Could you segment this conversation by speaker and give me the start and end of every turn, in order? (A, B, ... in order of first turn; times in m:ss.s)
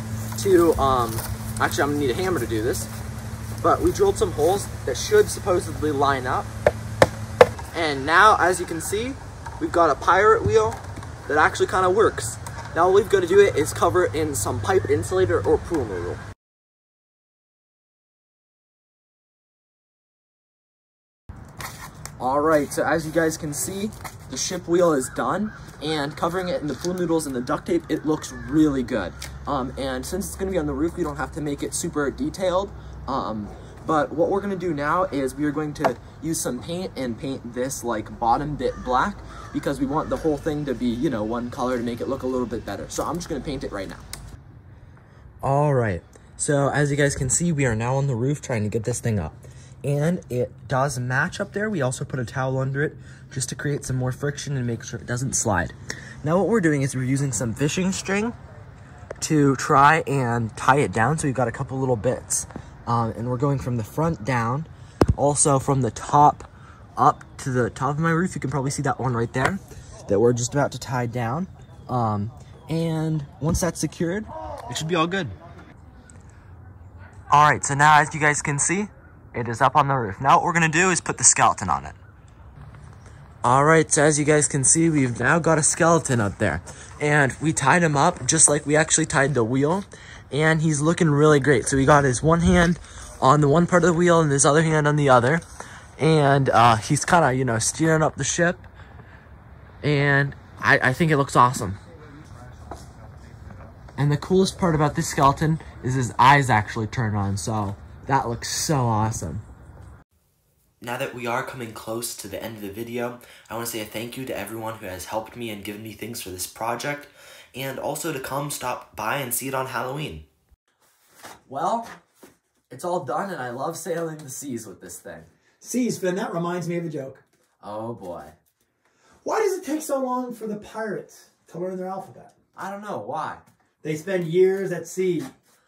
0:00.4-0:02.9 A
0:03.6-0:06.5 A
0:07.7-0:16.2 A
0:22.2-0:44.0 A
0:45.4-0:58.4 A
0:59.2-1:15.3 A
1:17.3-1:22.0 A
1:23.4-1:35.4 A
1:36.0-1:38.7 A
1:39.8-1:41.8 A
1:44.0-1:49.4 A
1:50.8-2:00.3 A
2:01.5-2:01.9 A
2:02.7-2:05.3 A
2:05.6-2:07.2 B
2:07.6-2:08.3 A
2:09.2-2:12.3 B
2:12.6-2:13.4 A
2:13.8-2:15.3 B